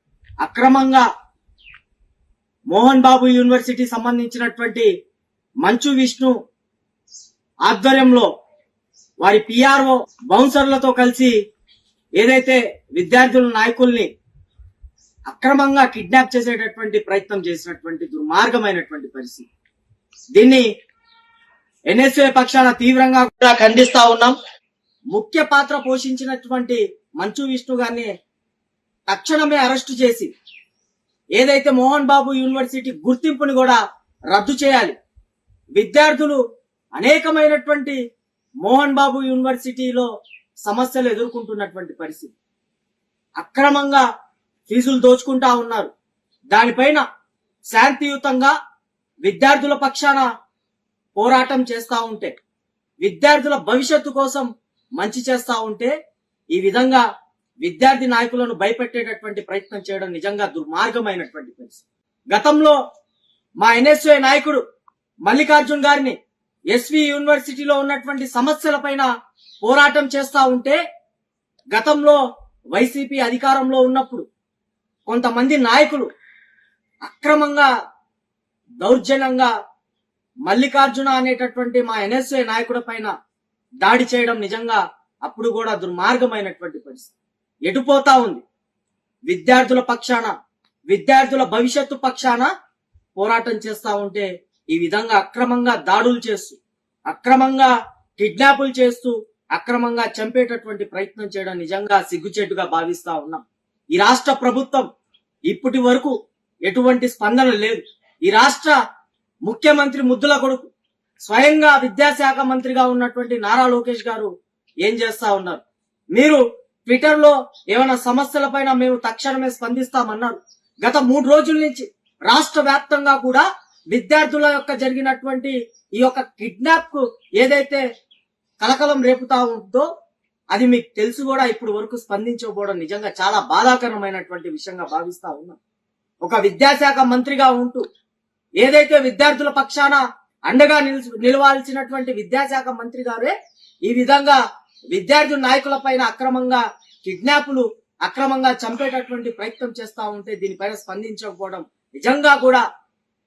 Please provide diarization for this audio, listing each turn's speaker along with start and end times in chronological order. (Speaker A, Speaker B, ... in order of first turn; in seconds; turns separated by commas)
Speaker A: 0.4-1.0, Speaker A: 2.7-4.9, Speaker A: 5.6-6.3, Speaker A: 7.7-8.3, Speaker A: 9.2-11.3, Speaker A: 12.2-14.1, Speaker A: 15.3-19.5, Speaker A: 20.4-20.6, Speaker A: 21.9-24.4, Speaker A: 25.1-28.1, Speaker A: 29.1-30.3, Speaker A: 31.4-35.0, Speaker A: 35.8-36.4, Speaker A: 37.0-38.0, Speaker A: 38.6-40.1, Speaker A: 40.6-42.3, Speaker A: 43.4-44.0, Speaker A: 44.7-45.9, Speaker A: 46.5-47.0, Speaker A: 47.7-48.5, Speaker A: 49.2-50.3, Speaker A: 51.1-52.3, Speaker A: 53.0-54.5, Speaker A: 55.0-55.9, Speaker A: 56.5-57.0, Speaker A: 57.6-62.8, Speaker A: 63.6-64.6, Speaker A: 65.2-66.2, Speaker A: 66.7-69.1, Speaker A: 69.6-70.8, Speaker A: 71.7-72.2, Speaker A: 72.7-74.2, Speaker A: 75.1-76.1, Speaker A: 77.0-77.7, Speaker A: 78.8-79.5, Speaker A: 80.5-83.1, Speaker A: 83.8-87.1, Speaker A: 87.7-88.4, Speaker A: 89.3-90.3, Speaker A: 90.9-92.5, Speaker A: 93.2-103.4, Speaker A: 104.0-104.8, Speaker A: 105.5-106.1, Speaker A: 106.7-108.7, Speaker A: 109.5-110.7, Speaker A: 111.2-114.3, Speaker A: 114.8-115.6, Speaker A: 116.1-127.8, Speaker A: 128.6-129.9, Speaker A: 130.5-135.6, Speaker A: 136.2-137.8, Speaker A: 138.6-143.3, Speaker A: 143.8-144.4, Speaker A: 144.9-152.6